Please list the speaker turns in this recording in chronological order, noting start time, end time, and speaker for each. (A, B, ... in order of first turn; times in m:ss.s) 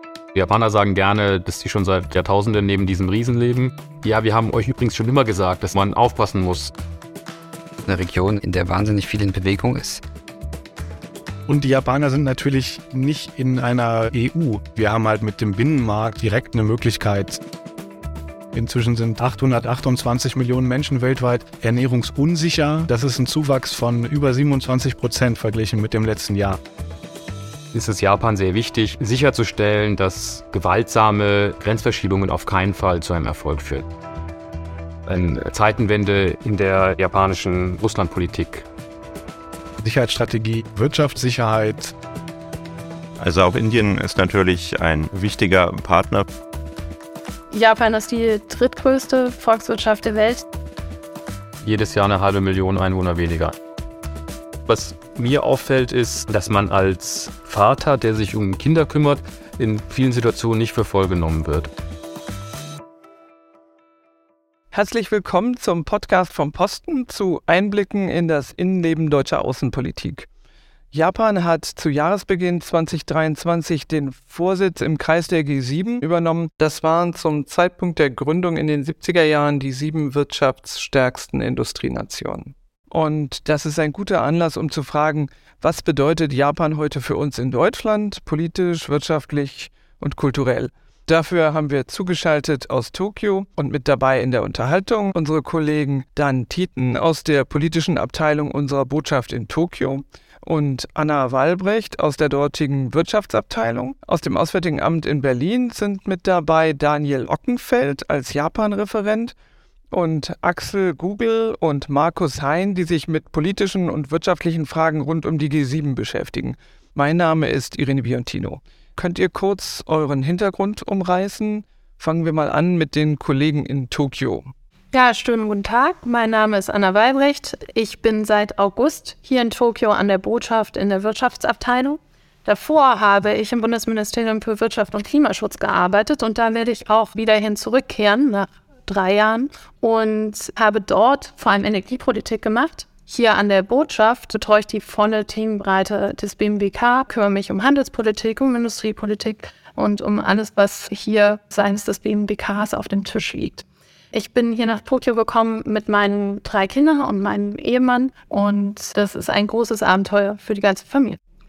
0:00.3-0:06.7 A
0:07.8-0:10.0 B
0:11.5-0:17.4 C
0:18.5-0:26.6 C
0:27.7-0:33.8 A
0:35.1-0:38.7 A
0:39.8-0:41.9 C
0:43.2-0:46.3 D
0:47.5-0:50.4 E
0:51.6-0:53.6 A
0:54.7-1:01.7 A
1:04.7-1:10.3 F
1:10.9-1:49.3 F
1:49.9-2:04.5 F
2:04.9-2:41.2 E